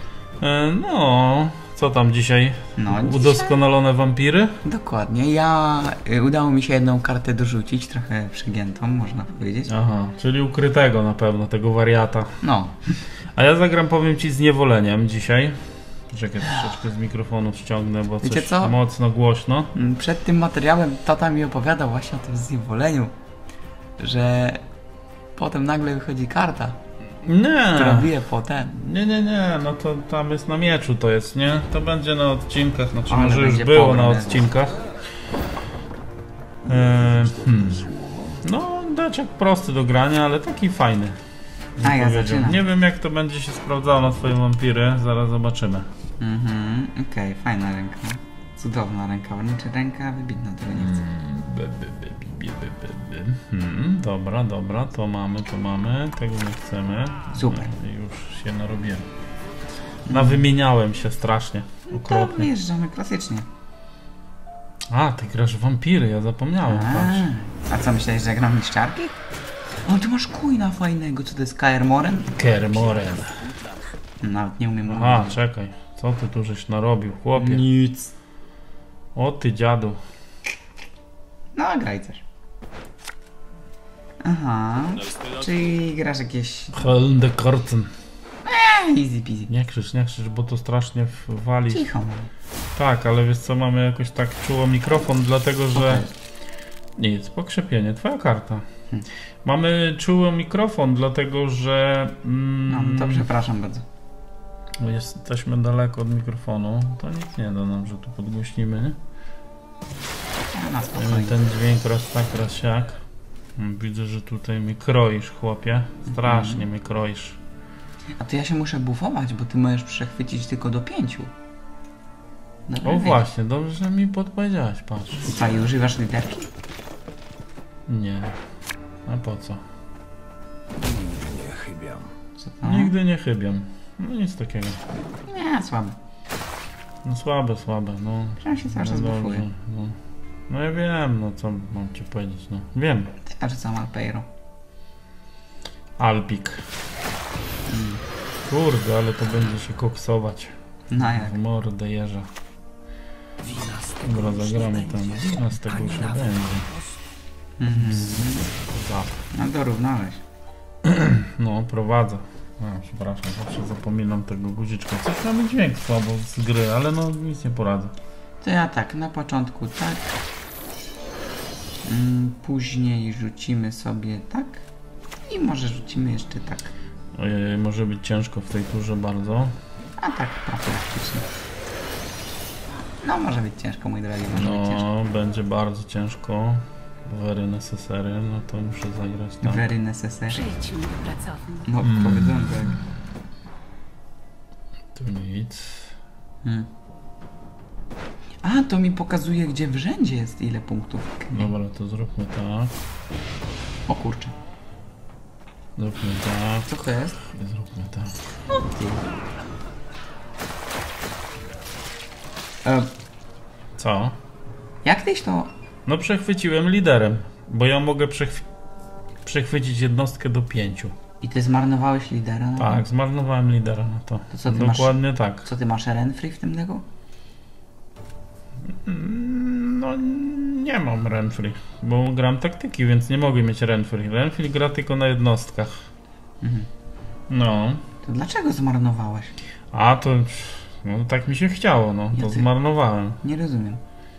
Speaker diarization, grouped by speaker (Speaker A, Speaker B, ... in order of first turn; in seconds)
Speaker A: 0.4-4.6, 9.7-12.4, 13.3-19.7, 27.2-34.9, 36.7-37.9, 38.4-41.2, 41.8-45.9, 50.7-59.1, 60.1-62.5, 64.9-67.3, 72.3-73.4, 74.8-78.0, 79.2-80.0, 86.7-87.9, 89.5-91.9, 92.8-96.1, 97.0-98.7, 99.4-103.3, 104.8-109.0, 111.0-113.0, 113.6-117.4, 122.8-125.4, 127.9-128.4, 129.1-129.6, 132.6-134.8, 137.0-140.0, 140.5-143.1, 146.0-146.7, 148.4-152.3, 154.0-156.7, 157.7-159.2, 160.8-167.9, 177.2-179.6, 184.3-189.6, 191.8-192.8, 194.9-196.0, 201.3-202.8, 205.8-208.2, 213.8-214.2, 215.9-218.5, 219.2-220.9, 222.6-225.5, 228.7-235.9, 237.3-237.8, 239.7-243.2
Speaker B: 2.8-3.6, 4.6-9.7, 12.4-12.8, 18.2-18.8, 19.7-23.1, 24.0-24.6, 25.4-26.8, 27.7-28.7, 33.1-34.5, 41.8-42.6, 46.2-51.1, 57.3-57.7, 60.1-60.5, 61.9-63.5, 66.7-69.2, 69.8-72.4, 74.2-75.4, 77.3-77.7, 81.5-82.2, 84.2-86.9, 88.5-89.5, 91.7-92.3, 95.7-96.1, 102.7-103.8, 110.5-111.4, 116.1-116.6, 118.2-121.3, 122.7-123.2, 125.3-126.5, 132.4-132.9, 135.3-136.0, 138.4-139.5, 143.2-144.3, 147.7-148.0, 150.9-151.4, 157.6-158.5, 159.3-160.2, 168.4-170.2, 171.8-174.7, 175.3-176.7, 180.0-181.3, 183.0-184.9, 189.4-190.4, 191.7-192.8, 198.4-201.5, 203.9-204.3, 206.7-207.2, 208.6-209.0, 212.6-212.9, 214.8-215.5, 221.2-222.9, 224.3-226.8, 236.4-236.7, 238.0-239.3, 242.1-242.5, 243.2-243.8
Speaker C: 36.6-38.4, 72.4-73.8, 130.7-132.1, 153.4-157.0, 190.3-191.7